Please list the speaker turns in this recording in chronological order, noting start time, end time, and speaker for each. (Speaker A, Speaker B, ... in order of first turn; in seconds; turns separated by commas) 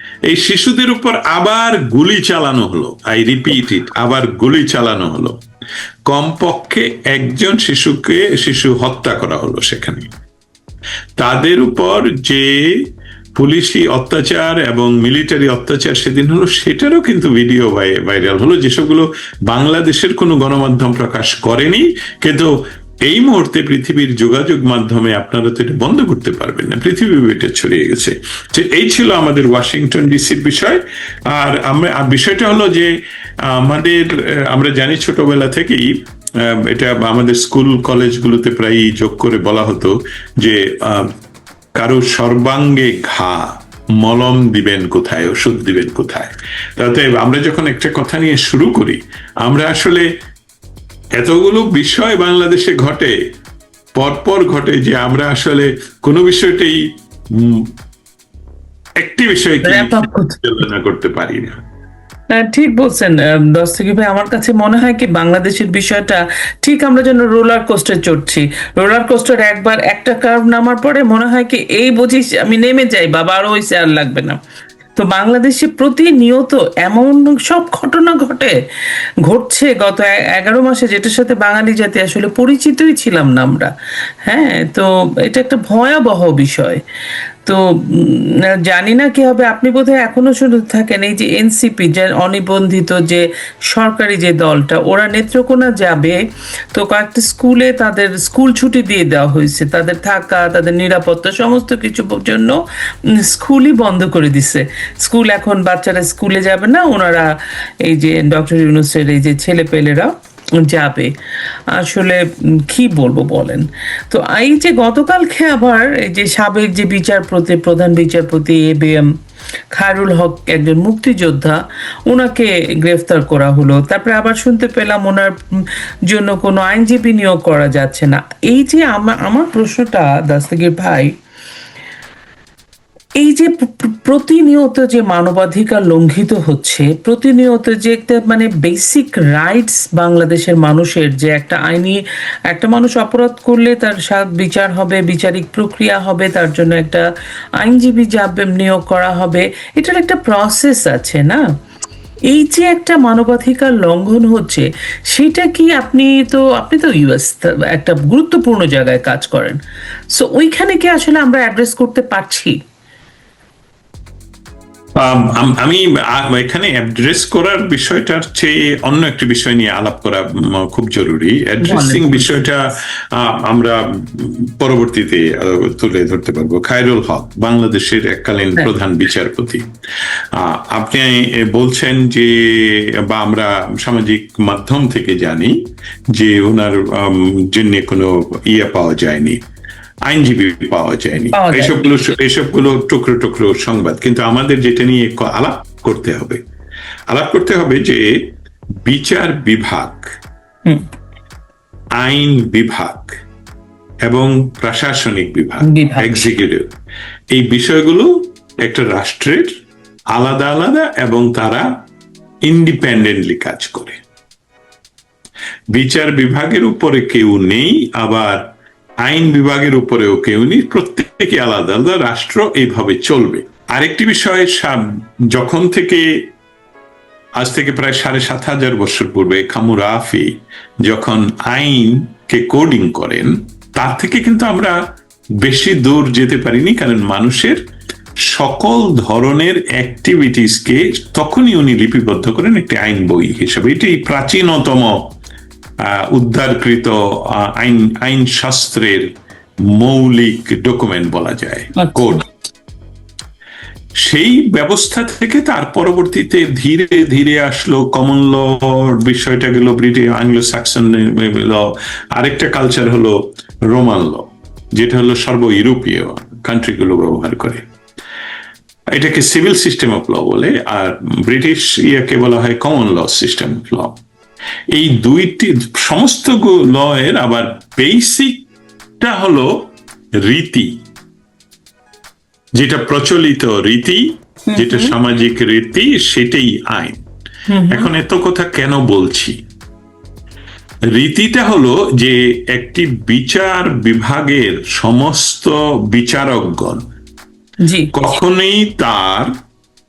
Speaker A: 0.3-5.4, Speaker A: 6.1-10.1, Speaker A: 11.2-12.9, Speaker A: 13.4-22.5, Speaker A: 23.1-32.9, Speaker A: 33.5-41.1, Speaker A: 41.8-50.1, Speaker A: 51.2-53.2, Speaker A: 54.0-57.7, Speaker A: 59.0-61.6, Speaker B: 59.6-60.4, Speaker B: 62.3-74.4, Speaker B: 75.0-78.6, Speaker B: 79.3-83.7, Speaker B: 84.2-86.8, Speaker B: 87.5-96.2, Speaker B: 96.7-107.3, Speaker B: 107.8-110.1, Speaker B: 110.6-111.1, Speaker B: 111.7-119.1, Speaker B: 119.7-131.1, Speaker B: 133.2-147.0, Speaker B: 147.6-151.4, Speaker B: 152.3-159.6, Speaker B: 160.1-162.6, Speaker A: 165.0-179.7, Speaker B: 171.6-172.3, Speaker A: 180.3-185.6, Speaker A: 186.1-189.4, Speaker A: 190.1-196.4, Speaker B: 191.3-191.9, Speaker A: 197.1-198.1, Speaker A: 198.8-200.0, Speaker A: 202.0-203.2, Speaker A: 204.1-206.7, Speaker B: 205.6-206.3, Speaker A: 207.3-209.5, Speaker A: 210.2-211.7, Speaker A: 212.5-214.0, Speaker A: 215.7-218.4, Speaker A: 219.1-226.1, Speaker A: 227.4-234.8, Speaker A: 235.4-237.6, Speaker A: 238.3-245.1, Speaker A: 245.9-249.1, Speaker A: 249.7-252.3, Speaker B: 251.8-252.2, Speaker A: 254.0-267.6, Speaker A: 268.9-274.0, Speaker A: 274.7-278.5, Speaker A: 279.0-279.7, Speaker A: 280.2-280.8, Speaker A: 282.6-287.0, Speaker B: 284.5-284.9, Speaker B: 287.5-287.9, Speaker A: 287.7-289.4, Speaker A: 290.9-296.9, Speaker B: 297.6-297.9, Speaker A: 297.9-299.3